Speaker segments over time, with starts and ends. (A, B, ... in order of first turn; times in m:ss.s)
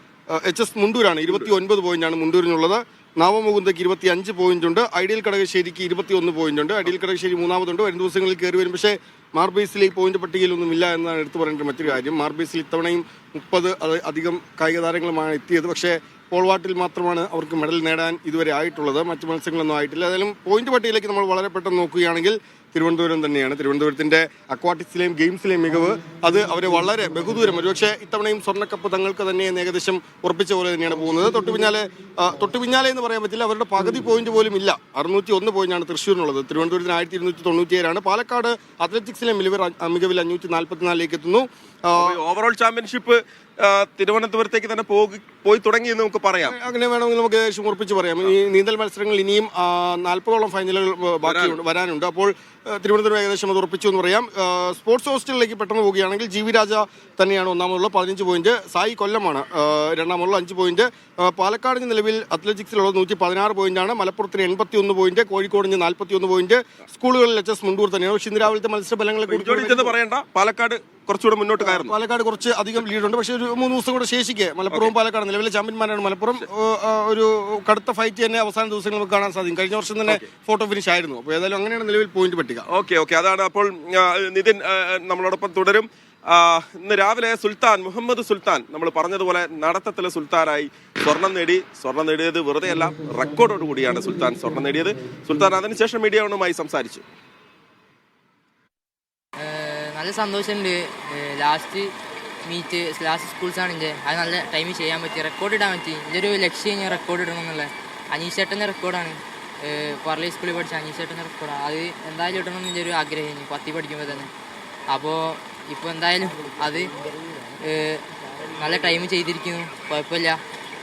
0:00.3-0:42.2 A
0:41.9-0:46.5 B
0:46.4-1:09.9 A
0:51.2-0:51.6 B
1:09.3-1:11.9 B
1:11.6-1:22.6 A
1:22.7-1:37.0 B
1:39.4-1:41.9 C
1:42.4-1:54.3 C
1:54.9-1:57.0 C
1:57.6-1:58.0 C
1:58.6-2:00.4 C